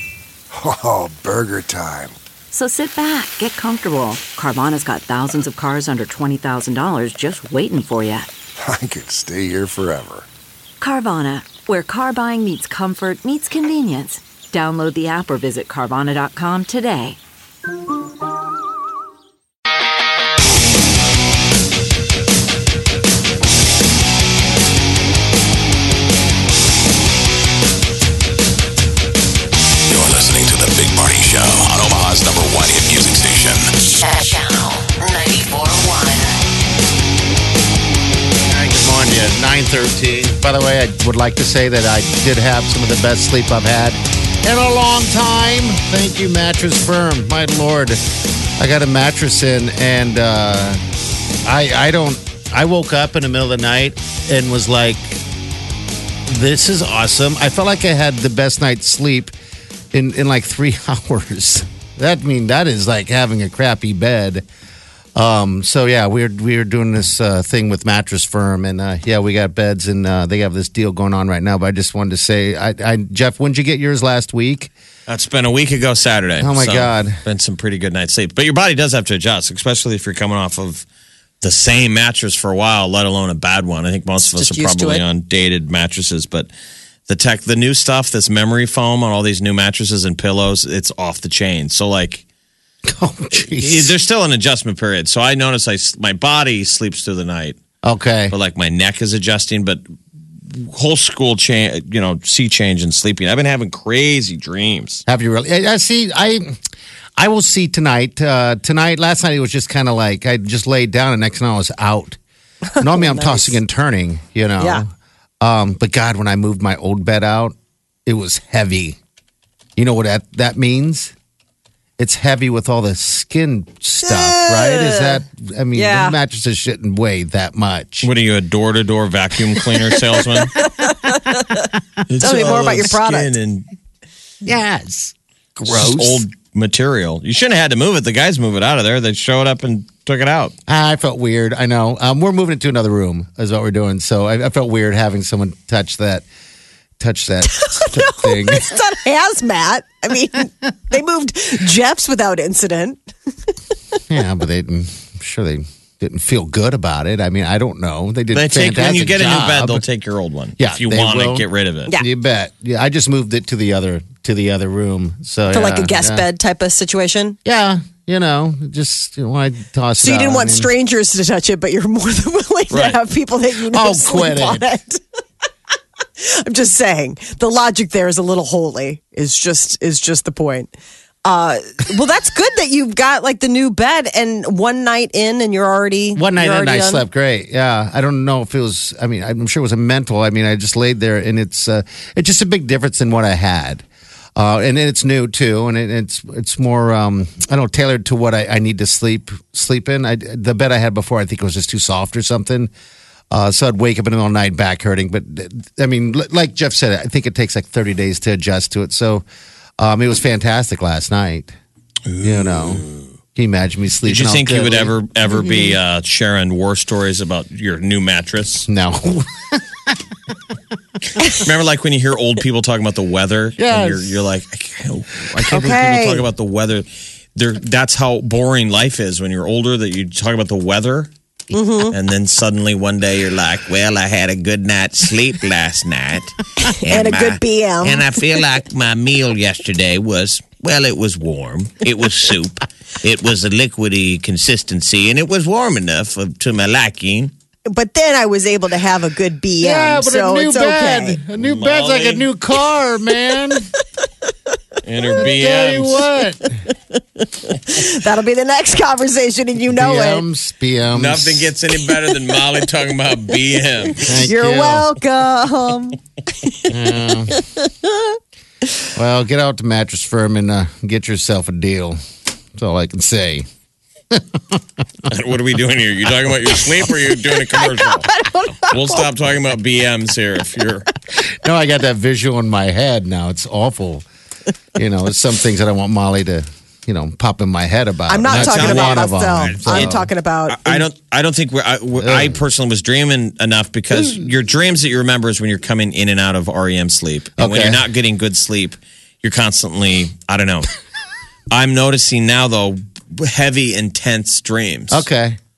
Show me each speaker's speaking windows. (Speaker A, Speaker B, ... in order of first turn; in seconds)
Speaker A: 0.5-2.2, 8.6-10.3
Speaker B: 2.5-8.3, 10.8-17.2
Speaker C: 29.9-33.7
Speaker D: 33.8-36.3
Speaker E: 38.5-48.0, 48.6-50.8, 51.4-55.2, 56.3-59.3, 59.9-64.5, 65.2-74.7, 76.4-77.2, 92.9-93.9, 97.8-98.3, 105.0-106.5, 107.2-112.2, 112.8-114.9, 115.4-117.5, 118.0-119.0, 119.8-121.1, 122.0-128.1, 134.4-136.2, 140.7-146.2, 147.0-148.7, 154.1-159.8, 160.6-166.3, 167.4-170.7, 173.7-174.6, 186.1-193.8, 194.3-202.7, 203.3-209.2, 209.8-211.5, 212.2-214.9, 218.7-219.9, 223.6-224.2, 249.6-253.7, 255.2-256.5, 259.7-261.5, 264.0-264.9, 266.7-267.4, 268.9-272.0, 272.5-273.4, 274.1-274.6, 281.4-284.1, 284.7-290.1, 292.0-292.4, 297.4-297.8, 304.9-305.4
Speaker F: 75.1-80.8, 81.4-86.5, 87.1-92.2, 93.3-97.6, 98.3-99.8, 100.5-105.0, 128.0-130.6, 132.1-133.7, 135.7-140.5, 158.3-161.9, 172.7-173.0, 212.1-213.0, 214.0-218.7, 221.2-231.1, 231.9-247.3, 251.4-252.3, 254.8-256.1, 260.9-264.3, 275.1-278.1, 278.7-280.9, 288.2-300.7, 301.5-305.1
Speaker G: 84.3-85.0, 112.6-113.6, 114.6-114.8, 124.0-125.2, 125.7-126.2, 129.9-131.6, 132.2-133.3, 147.5-153.0, 165.5-167.4, 170.0-175.0, 176.2-180.7, 181.2-187.0, 215.3-215.7, 225.5-226.2, 231.5-231.9, 236.6-238.1, 247.7-251.2, 257.2-260.2, 264.2-267.9, 276.9-279.1, 288.1-290.9